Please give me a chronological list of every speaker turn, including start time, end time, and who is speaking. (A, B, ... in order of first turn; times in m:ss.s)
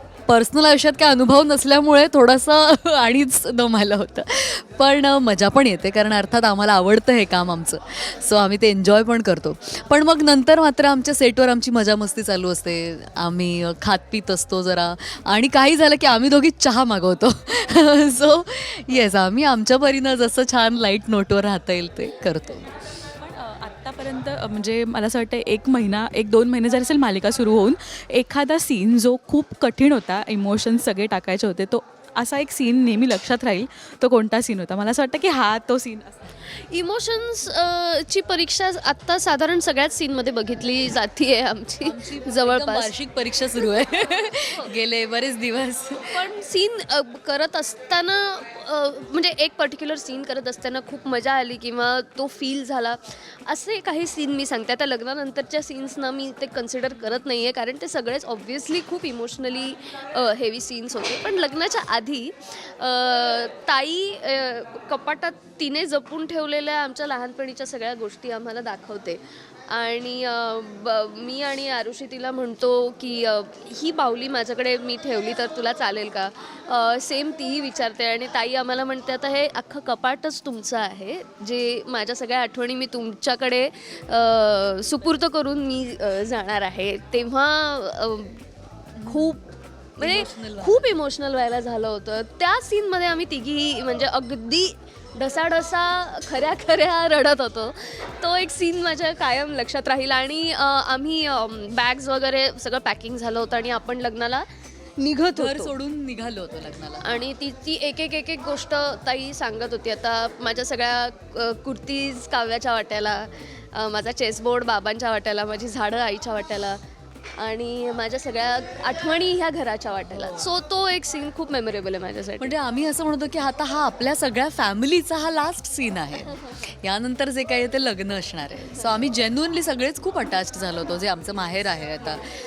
0:00.3-0:22.7 A
0:23.2-0:36.4 B
0:36.5-0:42.9 C
0:41.8-0:46.3 A
0:46.1-1:28.4 C
1:29.0-1:29.4 A
1:29.0-1:45.8 C
1:30.0-1:30.9 A
1:45.3-1:47.2 A
1:47.0-1:56.8 C
1:57.4-2:02.6 C
2:00.1-2:00.5 A
2:02.4-2:12.2 A